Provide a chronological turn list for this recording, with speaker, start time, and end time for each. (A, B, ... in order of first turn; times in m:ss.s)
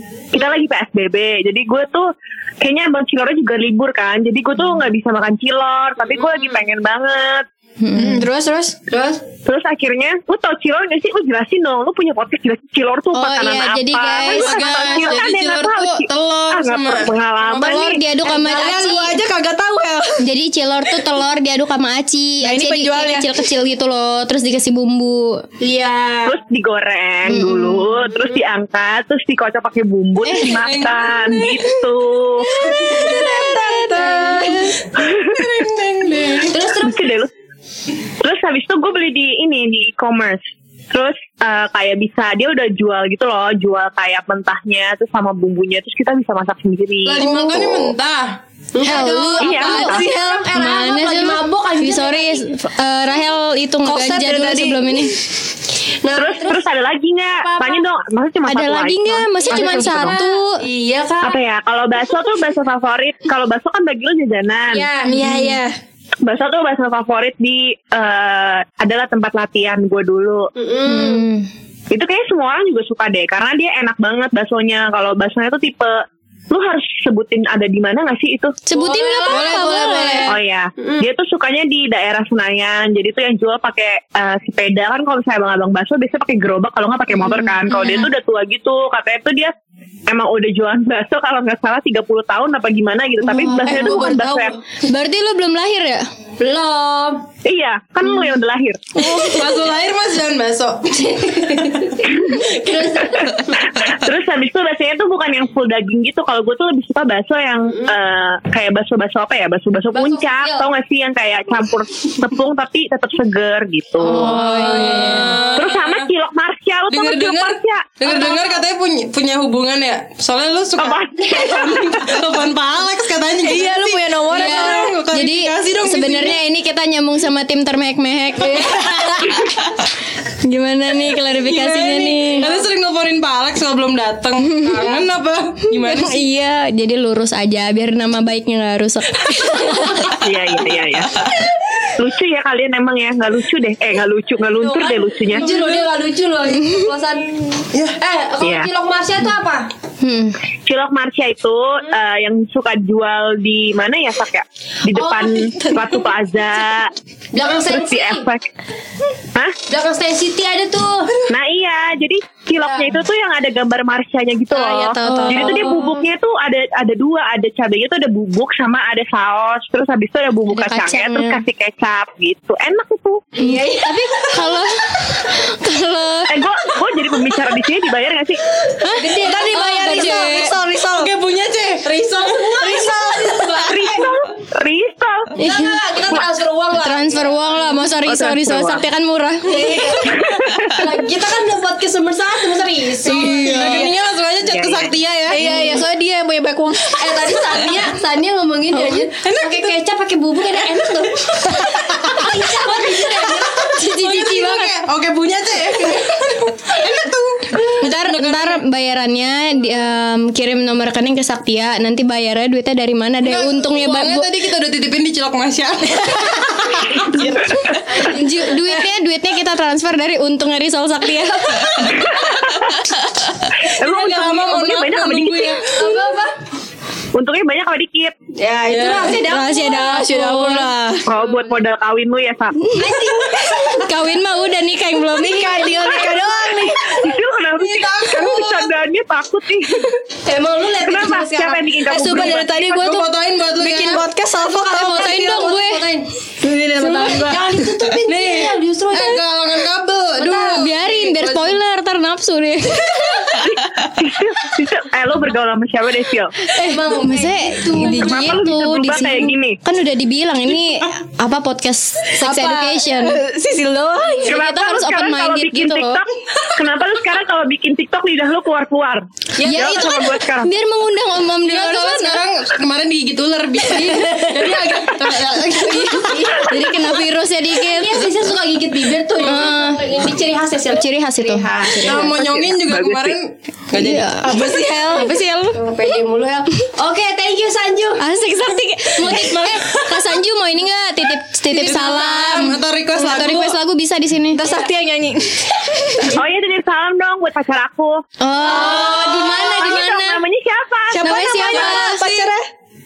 0:00.3-0:07.5 A
0:07.8-0:08.2 B
0:08.0-0:08.8 C
0:08.9-0:09.2 D
0:09.4-0:18.0 A
0:13.1-0:15.2 B
0:14.4-0:18.0 E
0:14.5-0:14.9 C
0:17.6-0:19.1 B
0:18.2-0:18.7 D
0:18.4-0:20.2 C
0:20.2-0:25.4 B
0:22.4-0:23.4 C
0:25.6-0:26.4 D
0:26.2-0:32.5 A
0:27.3-0:27.9 B
0:30.2-0:30.7 C
0:30.4-0:31.6 E
0:32.4-0:34.8 C
0:32.7-0:33.4 E
0:33.9-0:34.7 D
0:35.0-0:36.6 E
0:35.1-0:35.4 A
0:36.5-0:37.1 D
0:36.8-0:37.3 A
0:38.2-0:40.4 A
0:40.9-0:47.3 A
0:47.0-0:48.4 E
0:47.2-0:47.9 B
0:48.8-0:52.5 D
0:48.8-0:50.4 C
0:49.4-0:50.0 A
0:50.5-0:55.2 B
0:53.8-0:55.1 C
0:56.0-0:56.6 D
0:56.2-1:00.2 A
0:57.3-0:57.9 D
0:58.4-1:00.6 B
0:59.5-1:01.4 D
1:01.2-1:04.9 A
1:04.7-1:05.2 D
1:05.0-1:05.7 C
1:05.2-1:05.6 B
1:06.2-1:10.5 A
1:10.6-1:11.2 D
1:10.9-1:11.5 B
1:11.9-1:16.0 A
1:16.5-1:18.6 A
1:18.6-1:20.3 B
1:18.7-1:19.8 D
1:19.3-1:20.4 C
1:20.3-1:29.5 A
1:20.8-1:21.0 D
1:27.2-1:28.1 B
1:30.1-1:34.6 A
1:33.3-1:34.6 C
1:33.4-1:33.9 B
1:34.8-1:36.1 B
1:36.4-1:37.2 D
1:37.4-1:39.0 A
1:39.0-1:42.0 E
1:41.0-1:43.6 D
1:43.8-1:54.4 A
1:49.9-1:50.7 D
1:54.0-1:55.4 C
1:54.1-1:55.4 B
1:54.3-1:55.2 D
1:54.3-1:56.1 E
1:55.6-1:58.1 A
1:56.9-2:06.4 E
2:00.8-2:02.1 A
2:03.4-2:04.9 C
2:04.3-2:09.6 B
2:08.6-2:09.2 C
2:10.4-2:12.5 B
2:11.4-2:16.3 E
2:12.4-2:12.7 D
2:14.5-2:14.9 B
2:15.7-2:20.1 B
2:20.1-2:21.1 A
2:22.0-2:25.5 A
2:24.6-2:29.7 D
2:25.4-2:25.9 E
2:27.7-2:28.0 E
2:28.4-2:28.7 A
2:30.0-2:30.4 B
2:30.6-2:36.9 A
2:34.9-2:36.0 D
2:37.3-2:38.3 D
2:37.7-2:38.4 A
2:39.7-2:41.1 D
2:41.3-2:53.3 A
2:42.6-2:42.9 D
2:44.6-2:45.7 B
2:44.6-2:45.6 C
2:45.3-2:46.0 D
2:50.5-2:51.4 B
2:53.4-2:54.0 D
2:53.4-2:56.3 B
2:56.3-2:58.4 A
2:58.8-3:00.5 B
2:58.8-3:00.5 D
2:59.2-3:01.1 C
3:00.9-3:04.0 E
3:01.8-3:04.0 D
3:03.6-3:05.3 A
3:05.4-3:07.8 D
3:05.4-3:05.8 B
3:06.8-3:09.8 B
3:08.1-3:08.8 A
3:09.5-3:10.1 D
3:09.6-3:10.0 C
3:10.2-3:10.9 A
3:10.7-3:13.6 D
3:13.0-3:13.9 C
3:13.1-3:15.4 E
3:14.4-3:14.9 A
3:15.3-3:17.0 C
3:15.4-3:15.8 D
3:17.0-3:23.7 D
3:17.5-3:17.8 E
3:18.7-3:19.0 B
3:19.2-3:19.8 E
3:21.5-3:28.6 E
3:23.6-3:24.7 B
3:27.8-3:34.4 B
3:33.2-3:37.8 E
3:37.1-3:38.0 A
3:37.9-3:38.6 D
3:38.0-3:42.0 B
3:41.8-3:42.4 E
3:41.9-3:42.9 A
3:43.7-3:45.6 A
3:43.8-3:46.0 E
3:45.8-3:46.3 D
3:47.1-3:48.1 A
3:48.4-3:50.6 D
3:48.7-3:49.2 E
3:49.2-3:50.7 B
3:49.4-3:51.1 C
3:51.1-3:52.6 A
3:51.1-3:51.6 D
3:52.7-3:55.9 B
3:52.8-3:53.8 D
3:55.2-3:57.2 C
3:55.6-3:56.1 E
3:56.9-3:59.9 A
3:57.4-3:58.7 E
4:00.2-4:02.2 D
4:00.8-4:02.6 A
4:01.9-4:05.4 C
4:02.3-4:04.0 E
4:04.6-4:06.1 D
4:04.7-4:05.9 B
4:06.4-4:07.7 C
4:06.8-4:09.2 D
4:08.1-4:11.6 E
4:10.2-4:13.4 B
4:13.5-4:16.3 A
4:16.5-4:23.2 B
4:16.6-4:18.4 D
4:17.8-4:19.6 A
4:22.2-4:24.4 C
4:24.2-4:26.0 B
4:24.2-4:26.0 A
4:26.6-4:30.5 A
4:29.4-4:32.2 B
4:31.4-4:36.3 E
4:33.9-4:34.3 B
4:35.7-4:38.1 B
4:36.0-4:36.7 D
4:37.7-4:42.1 D
4:39.2-4:39.8 B
4:40.7-4:42.2 B
4:41.8-4:44.1 E
4:42.1-4:43.2 A
4:43.7-4:45.6 B
4:44.2-4:45.1 C
4:45.5-4:48.0 D
4:48.0-4:54.4 B
4:49.0-4:49.5 D
4:49.1-4:49.9 E
4:51.5-4:53.6 E
4:54.3-4:56.2 C
4:56.1-4:58.0 A
4:58.2-5:00.2 B
4:58.4-4:59.4 C
4:58.5-4:59.4 D
4:58.9-5:01.1 A
5:00.9-5:02.4 C
5:01.0-5:02.3 B